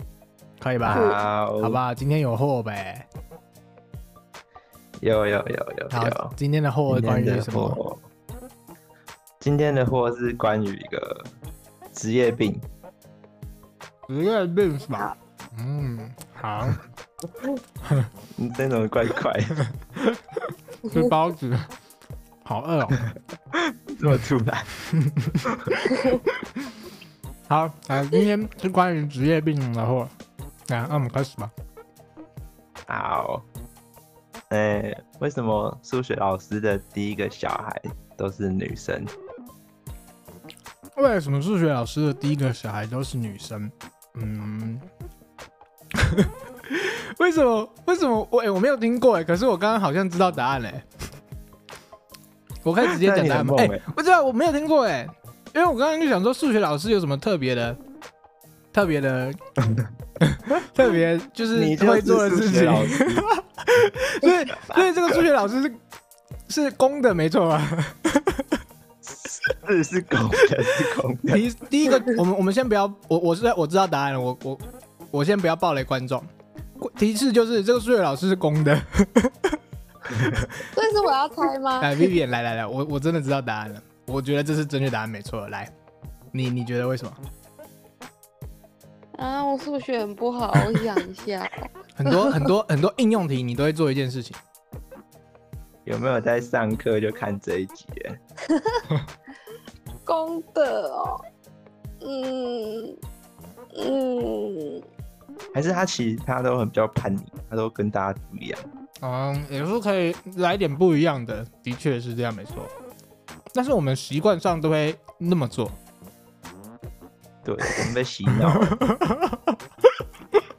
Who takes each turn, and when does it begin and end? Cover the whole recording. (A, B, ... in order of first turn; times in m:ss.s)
0:00.6-0:03.1 A
0:00.8-0:01.8 B
0:00.9-0:01.2 C
0:05.0-0:06.4 B
0:05.9-0:07.8 A
0:06.9-0:08.1 B
0:09.4-0:11.3 B
0:11.9-0:12.6 B
0:14.1-0:16.8 A
0:18.4-0:19.6 B
0:20.8-0:21.7 A
0:22.4-0:23.0 A
0:23.6-0:24.7 B
0:24.9-0:25.2 A
0:25.7-0:26.2 A
0:27.5-0:30.1 A
0:30.7-0:31.5 A
0:32.9-0:33.5 B
0:34.5-0:39.1 B
0:41.0-0:44.9 A
0:46.1-0:50.8 A
0:52.6-0:57.8 A
0:53.0-0:53.8 B
0:58.7-0:59.4 A
1:00.2-1:05.8 A
1:01.5-1:03.2 B
1:04.7-1:05.2 B
1:06.5-1:08.4 A
1:09.0-1:11.5 B
1:11.3-1:19.5 A
1:20.7-1:22.1 C
1:21.8-1:25.7 A
1:26.3-1:27.2 A
1:29.2-1:32.5 C
1:32.0-1:34.4 A
1:35.9-1:38.2 B
1:38.6-1:38.8 C
1:40.1-1:41.2 C
1:42.0-1:43.0 C
1:43.7-1:44.8 C
1:45.5-1:48.7 B
1:49.0-1:52.7 A
1:53.5-1:55.8 A
1:57.4-1:58.8 B
1:58.6-1:59.5 A